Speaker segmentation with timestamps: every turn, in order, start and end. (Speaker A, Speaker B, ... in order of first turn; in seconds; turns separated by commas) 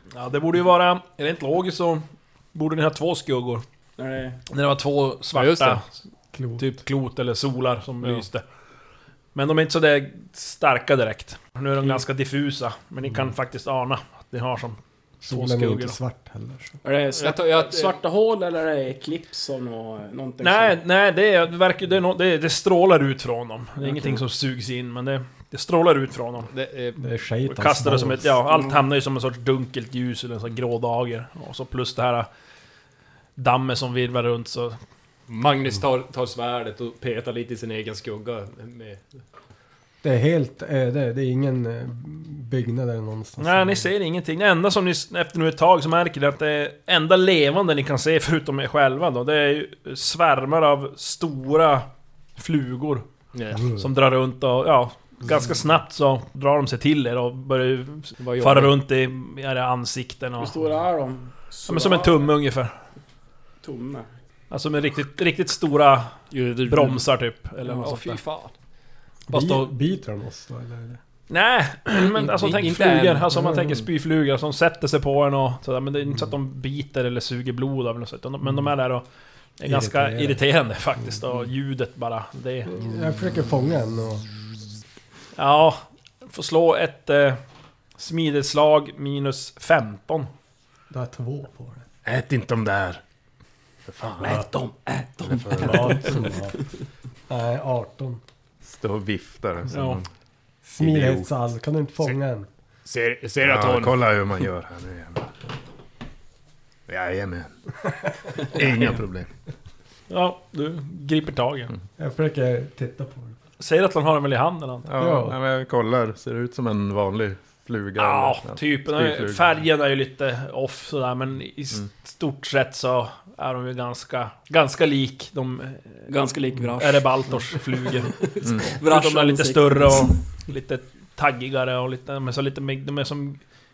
Speaker A: 0.1-3.6, Speaker B: 4.0-4.4, Speaker A: 4.5-5.8, Speaker C: 5.3-5.8, Speaker D: 6.3-6.8, Speaker A: 6.6-8.4, Speaker A: 9.3-14.8, Speaker D: 15.2-16.8, Speaker A: 15.3-16.0, Speaker B: 16.8-20.8, Speaker C: 17.1-18.0, Speaker A: 20.4-26.5, Speaker B: 23.8-24.2, Speaker C: 26.5-27.0, Speaker D: 26.9-28.4, Speaker A: 27.5-32.3, Speaker A: 33.4-34.8, Speaker C: 35.3-39.0, Speaker D: 40.0-43.9, Speaker A: 43.4-53.0, Speaker C: 53.3-53.7, Speaker A: 53.8-60.5, Speaker C: 58.2-58.7, Speaker B: 60.4-62.3, Speaker A: 61.7-62.8, Speaker B: 63.6-64.1, Speaker A: 64.5-68.2, Speaker C: 66.3-67.0, Speaker C: 67.8-68.5, Speaker D: 69.3-71.0, Speaker A: 69.3-69.7, Speaker A: 71.3-79.0, Speaker C: 72.1-73.2, Speaker A: 79.6-82.7, Speaker D: 79.6-80.4, Speaker D: 82.7-84.3, Speaker A: 85.3-87.4, Speaker A: 88.0-90.3, Speaker D: 90.9-91.8, Speaker E: 92.0-93.0, Speaker E: 93.9-94.5, Speaker B: 94.2-96.0, Speaker E: 95.2-95.9, Speaker D: 95.5-96.6, Speaker D: 97.3-98.2, Speaker E: 98.6-100.1, Speaker A: 99.7-100.0, Speaker D: 100.7-102.5, Speaker E: 100.8-101.3, Speaker C: 102.8-104.0, Speaker E: 103.4-105.3, Speaker E: 106.9-107.5, Speaker E: 108.5-109.3, Speaker A: 110.1-111.7, Speaker D: 112.0-113.3, Speaker A: 113.6-114.9, Speaker E: 114.8-119.5, Speaker D: 115.0-115.4, Speaker A: 118.0-126.0, Speaker B: 126.1-130.2, Speaker A: 126.8-128.3, Speaker A: 128.8-133.4